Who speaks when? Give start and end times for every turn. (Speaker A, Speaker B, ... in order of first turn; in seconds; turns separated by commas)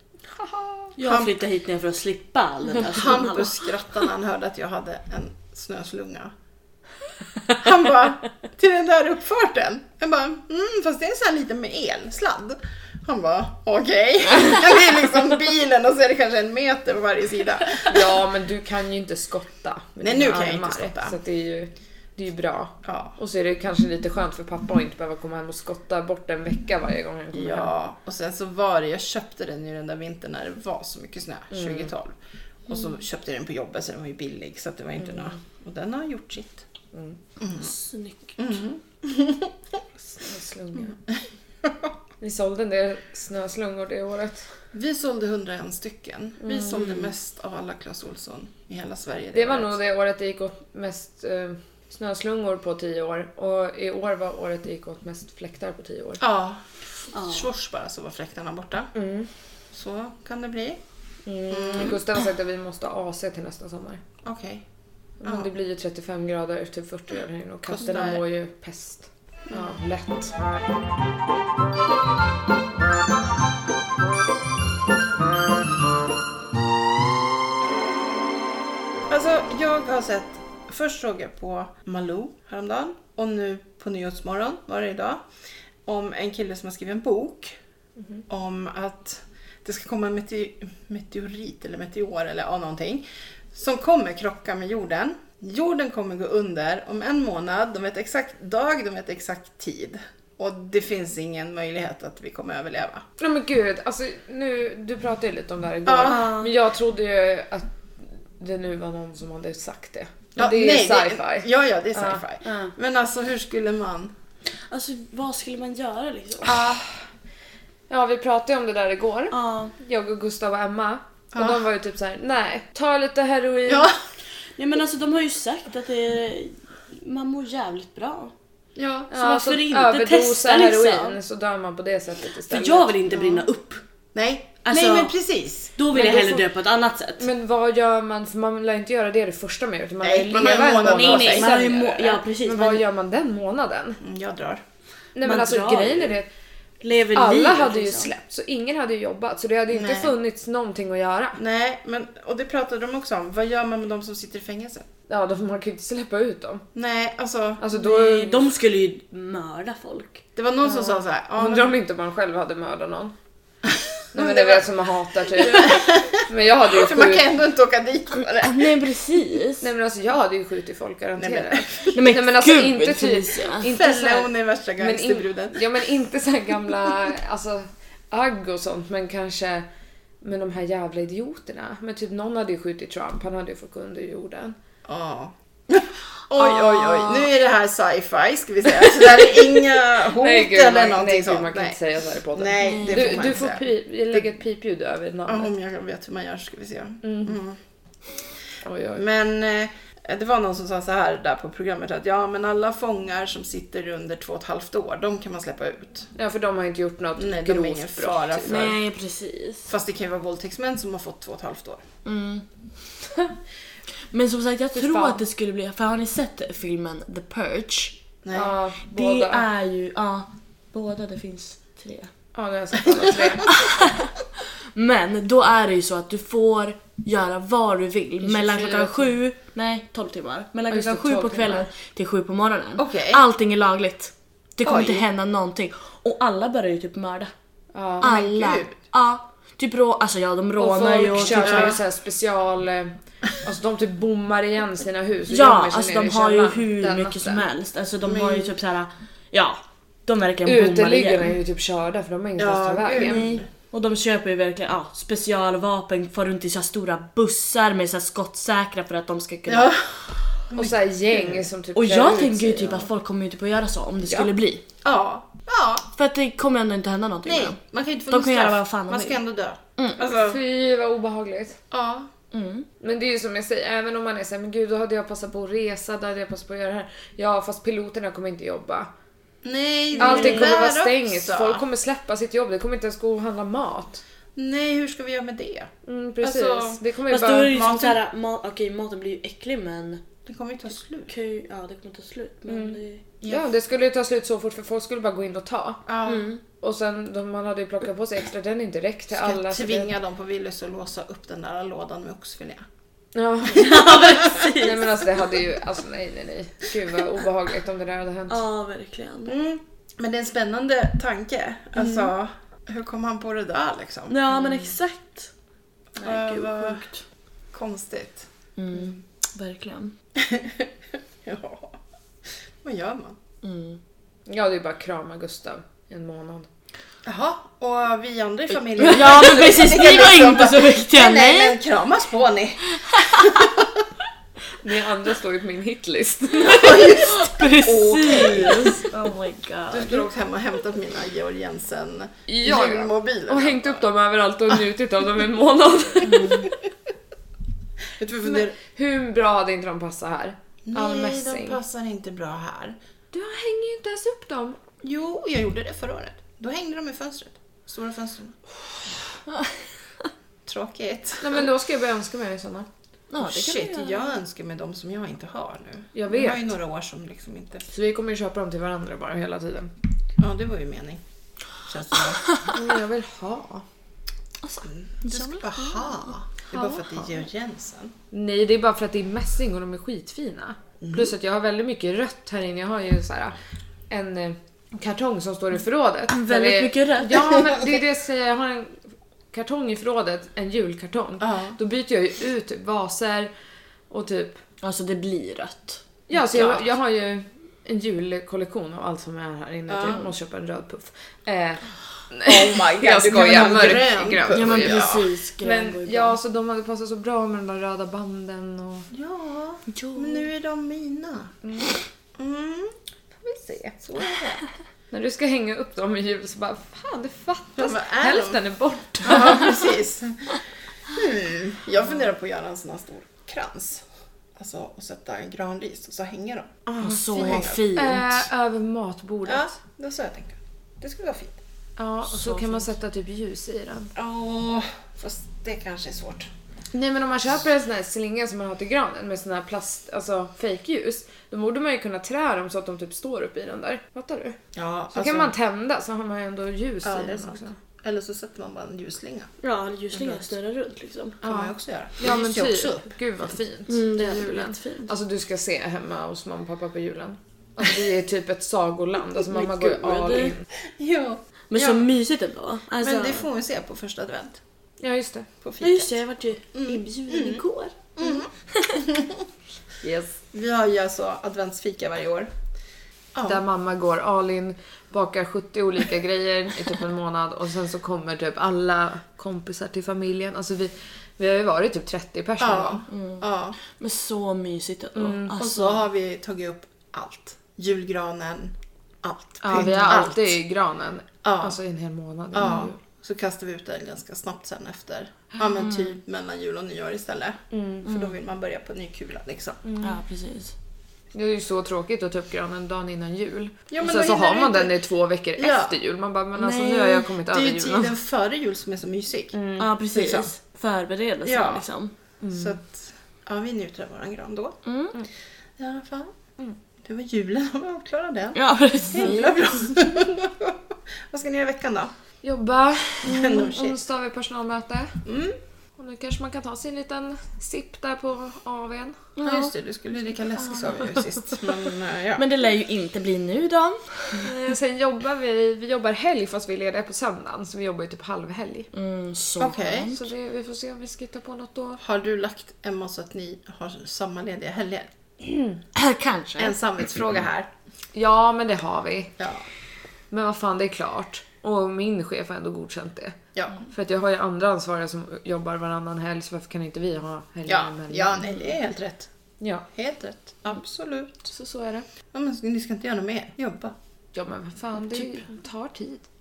Speaker A: 0.3-0.9, Speaker B: 1.0-3.6, Speaker C: 1.0-1.3, Speaker C: 2.9-6.3, Speaker C: 7.5-17.9, Speaker A: 17.8-27.7, Speaker C: 20.0-21.2, Speaker C: 22.8-23.1, Speaker C: 27.3-32.1, Speaker A: 31.5-31.9, Speaker C: 32.7-36.6, Speaker A: 36.9-37.2, Speaker C: 37.4-37.7, Speaker B: 37.6-38.4, Speaker C: 38.4-39.5, Speaker A: 40.1-41.0, Speaker A: 42.2-44.5, Speaker C: 44.7-49.7, Speaker A: 46.4-47.1, Speaker A: 49.3-56.2, Speaker C: 56.2-58.9, Speaker B: 57.1-57.5, Speaker A: 58.9-59.3, Speaker C: 59.7-60.8, Speaker A: 61.2-64.0, Speaker C: 61.5-62.0, Speaker C: 64.2-64.6, Speaker A: 65.2-70.4, Speaker C: 65.2-65.5, Speaker C: 67.7-68.2, Speaker C: 79.1-85.2, Speaker C: 85.8-87.5, Speaker C: 88.3-103.0, Speaker A: 103.2-107.7, Speaker C: 105.8-106.3, Speaker B: 106.0-106.5, Speaker A: 108.4-112.7, Speaker C: 110.3-114.1, Speaker B: 114.5-116.6, Speaker A: 116.4-117.0, Speaker A: 117.9-123.9, Speaker B: 119.3-119.7, Speaker C: 121.3-121.6, Speaker C: 123.7-123.9, Speaker B: 124.6-128.3, Speaker C: 128.8-129.1, Speaker A: 129.1-133.4, Speaker B: 129.1-131.2, Speaker B: 132.5-133.8, Speaker C: 134.1-135.7, Speaker B: 134.6-135.1, Speaker B: 135.8-137.3, Speaker A: 135.9-136.4, Speaker A: 137.2-144.0, Speaker C: 140.0-141.5, Speaker B: 140.7-142.8, Speaker C: 144.0-144.6, Speaker A: 145.1-146.3, Speaker B: 145.2-146.2, Speaker B: 146.8-148.1, Speaker A: 147.1-151.4, Speaker C: 149.7-150.1, Speaker C: 151.4-154.8, Speaker A: 155.1-156.6, Speaker C: 156.7-157.6, Speaker A: 157.6-158.4, Speaker B: 157.7-160.2, Speaker C: 160.3-161.8, Speaker A: 160.6-163.1, Speaker C: 164.1-164.7, Speaker A: 164.1-167.2, Speaker C: 165.4-168.7, Speaker B: 165.4-165.8, Speaker B: 168.3-169.7, Speaker A: 169.6-179.7, Speaker C: 171.2-172.0, Speaker B: 171.9-173.7, Speaker C: 173.7-175.6, Speaker A: 180.2-184.6, Speaker C: 184.8-191.8, Speaker B: 186.4-187.2, Speaker A: 190.1-195.5, Speaker C: 192.3-194.2, Speaker B: 192.6-193.4, Speaker C: 195.3-197.6, Speaker A: 197.0-197.4, Speaker A: 198.6-199.0, Speaker C: 198.9-206.1, Speaker A: 206.1-208.7, Speaker C: 207.2-208.8, Speaker B: 208.4-209.7, Speaker C: 209.7-211.8, Speaker B: 212.0-212.4, Speaker B: 214.1-218.0, Speaker A: 214.7-215.2, Speaker C: 218.2-218.5, Speaker A: 218.3-219.5, Speaker B: 218.9-222.1, Speaker A: 222.3-223.6, Speaker B: 223.5-237.3, Speaker A: 228.2-229.1, Speaker A: 230.7-231.7, Speaker C: 232.8-233.2, Speaker C: 234.6-235.1, Speaker A: 237.7-238.2, Speaker B: 238.0-241.8, Speaker C: 238.0-238.7, Speaker A: 240.6-247.4, Speaker C: 241.1-241.8, Speaker B: 245.3-251.3, Speaker C: 248.0-248.5, Speaker A: 250.4-253.3, Speaker C: 252.4-253.5, Speaker B: 253.0-259.7, Speaker C: 259.5-261.5, Speaker A: 260.5-262.9, Speaker B: 261.7-264.6, Speaker C: 264.8-265.9, Speaker B: 265.9-269.2, Speaker C: 267.2-270.4, Speaker A: 270.0-271.6, Speaker C: 271.7-272.1, Speaker B: 272.3-272.7, Speaker A: 272.8-278.9, Speaker C: 279.4-281.6, Speaker B: 279.9-280.7, Speaker A: 280.0-284.0, Speaker C: 284.4-285.7, Speaker A: 285.9-287.9, Speaker C: 286.2-286.8, Speaker B: 287.1-290.0, Speaker C: 287.6-287.9, Speaker C: 290.2-291.1, Speaker B: 291.1-293.0, Speaker A: 292.5-295.8, Speaker C: 295.9-296.3, Speaker B: 296.1-296.4, Speaker A: 296.6-299.9, Speaker C: 299.1-302.6, Speaker A: 303.1-308.4, Speaker B: 303.5-305.1, Speaker B: 308.3-309.4, Speaker C: 309.2-314.2, Speaker B: 314.1-315.3, Speaker C: 316.0-316.8, Speaker B: 316.0-317.0, Speaker C: 317.5-318.2, Speaker B: 318.6-319.9, Speaker C: 320.2-320.7, Speaker C: 321.2-321.8, Speaker C: 322.6-323.2, Speaker B: 323.4-323.8, Speaker A: 324.3-326.5, Speaker C: 327.0-333.8, Speaker B: 328.8-331.6, Speaker B: 333.0-333.3, Speaker A: 334.6-336.9, Speaker C: 336.4-338.8, Speaker B: 336.5-340.1, Speaker C: 339.7-343.8, Speaker A: 342.3-346.5, Speaker B: 346.1-346.5, Speaker C: 348.0-348.6, Speaker A: 348.2-351.6, Speaker C: 350.7-352.8, Speaker A: 353.1-354.6, Speaker C: 354.8-358.4, Speaker C: 360.4-361.4, Speaker A: 361.2-362.7, Speaker B: 363.1-364.1, Speaker C: 363.2-367.6, Speaker A: 365.9-366.5, Speaker A: 367.7-369.7, Speaker C: 370.2-371.0, Speaker C: 371.6-372.3, Speaker A: 372.5-373.6, Speaker B: 374.4-376.1, Speaker C: 374.6-377.9, Speaker A: 376.5-377.2, Speaker A: 378.1-383.4, Speaker C: 380.8-381.1, Speaker A: 383.9-388.8, Speaker B: 386.1-387.4, Speaker A: 389.3-393.3, Speaker C: 391.2-391.6, Speaker A: 393.9-394.4, Speaker B: 394.6-395.8, Speaker A: 396.1-408.9, Speaker C: 396.1-396.7, Speaker C: 399.7-400.1, Speaker C: 402.2-405.0, Speaker B: 404.3-406.2, Speaker C: 408.9-411.3, Speaker B: 409.7-410.3, Speaker A: 411.4-411.7, Speaker C: 412.2-412.7, Speaker A: 413.2-413.8, Speaker C: 413.8-414.4, Speaker A: 414.9-419.6, Speaker C: 417.6-418.4, Speaker C: 419.0-423.8, Speaker C: 424.4-427.7, Speaker B: 426.8-428.3, Speaker A: 427.7-429.5, Speaker C: 429.2-431.4, Speaker A: 431.8-433.9, Speaker B: 432.1-432.6, Speaker C: 433.9-436.3, Speaker A: 436.7-444.4, Speaker C: 444.5-445.3, Speaker A: 444.9-447.6, Speaker C: 446.8-449.3, Speaker B: 449.4-451.2, Speaker C: 449.9-450.2, Speaker C: 451.2-452.9, Speaker A: 451.2-460.4, Speaker B: 453.7-455.0, Speaker B: 459.1-460.3, Speaker C: 460.8-461.9, Speaker B: 461.5-463.2, Speaker C: 462.8-464.4, Speaker A: 464.8-465.3, Speaker C: 465.4-466.0, Speaker B: 465.6-467.9, Speaker C: 466.5-467.4, Speaker C: 467.9-469.2, Speaker A: 469.8-470.1, Speaker C: 470.3-472.3, Speaker C: 473.1-473.4, Speaker A: 473.2-482.8, Speaker C: 482.4-483.6, Speaker B: 482.9-485.8, Speaker A: 484.9-485.4, Speaker C: 485.4-490.3, Speaker A: 489.4-492.8, Speaker C: 491.2-491.6, Speaker C: 492.3-499.6, Speaker A: 497.5-497.9, Speaker A: 499.6-499.9, Speaker B: 499.8-500.5, Speaker A: 501.1-507.9, Speaker C: 503.7-504.7, Speaker C: 505.4-505.8, Speaker B: 506.4-507.1, Speaker C: 507.3-509.4, Speaker A: 509.3-509.7, Speaker B: 509.6-511.9, Speaker C: 509.9-510.3, Speaker C: 511.2-511.6, Speaker A: 512.2-512.5, Speaker C: 512.3-514.6, Speaker B: 514.6-514.9, Speaker C: 515.6-516.1, Speaker C: 516.8-520.6, Speaker B: 518.3-519.4, Speaker C: 521.1-521.9, Speaker A: 522.2-525.0, Speaker C: 523.0-523.8, Speaker C: 525.0-525.4, Speaker A: 525.8-529.1, Speaker B: 529.1-529.5, Speaker C: 529.2-532.2, Speaker B: 532.1-534.2, Speaker A: 534.2-538.7, Speaker B: 538.7-540.1, Speaker C: 539.4-539.9, Speaker A: 539.9-541.8, Speaker C: 541.8-544.9, Speaker B: 545.7-546.5, Speaker C: 546.4-547.5, Speaker A: 547.9-549.1, Speaker C: 549.2-549.4, Speaker A: 550.1-558.1, Speaker C: 553.4-553.6, Speaker C: 557.5-559.1, Speaker A: 559.4-559.6, Speaker C: 559.7-561.3, Speaker A: 561.3-561.9, Speaker C: 562.1-563.7, Speaker A: 564.1-566.0